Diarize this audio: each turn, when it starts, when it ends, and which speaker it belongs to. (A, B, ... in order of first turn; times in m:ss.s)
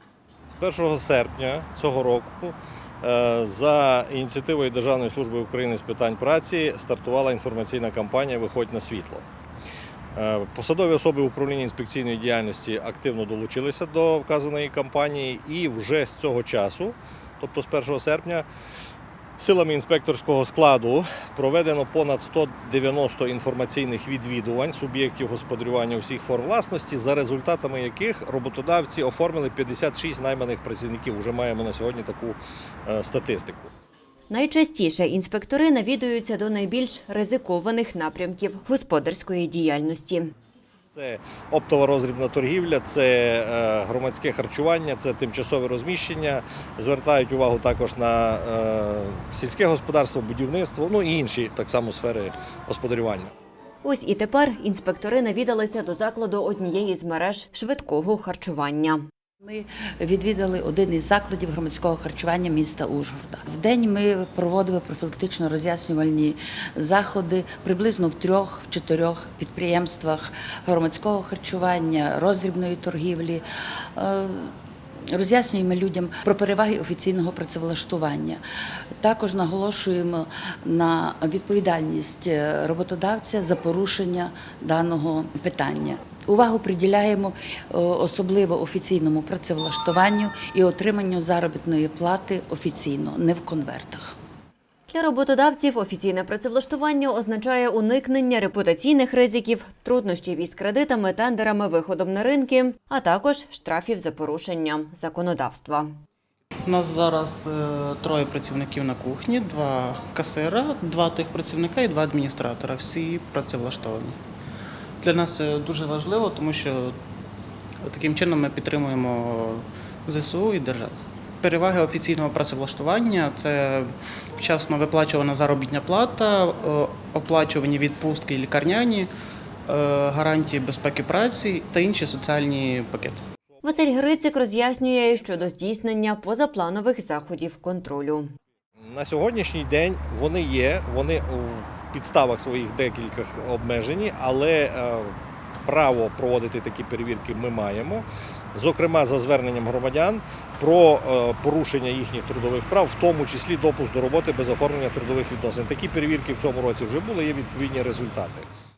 0:00.5-0:09.2 A
0:10.2-0:18.5 A
0:19.4-0:33.7 A
0:34.3-0:40.3 B
0:40.9-0:53.3 A
0:53.8-0:59.0 B
0:59.4-1:13.4 C
1:14.0-1:14.5 C
1:15.1-1:18.4 C
1:19.0-1:34.1 C
1:34.9-1:45.9 B
1:46.6-1:54.2 D
1:55.0-1:57.0 D
1:57.8-2:09.1 D
2:09.7-2:13.2 D
2:13.6-2:18.3 B
2:18.8-2:25.1 A
2:25.7-2:38.5 A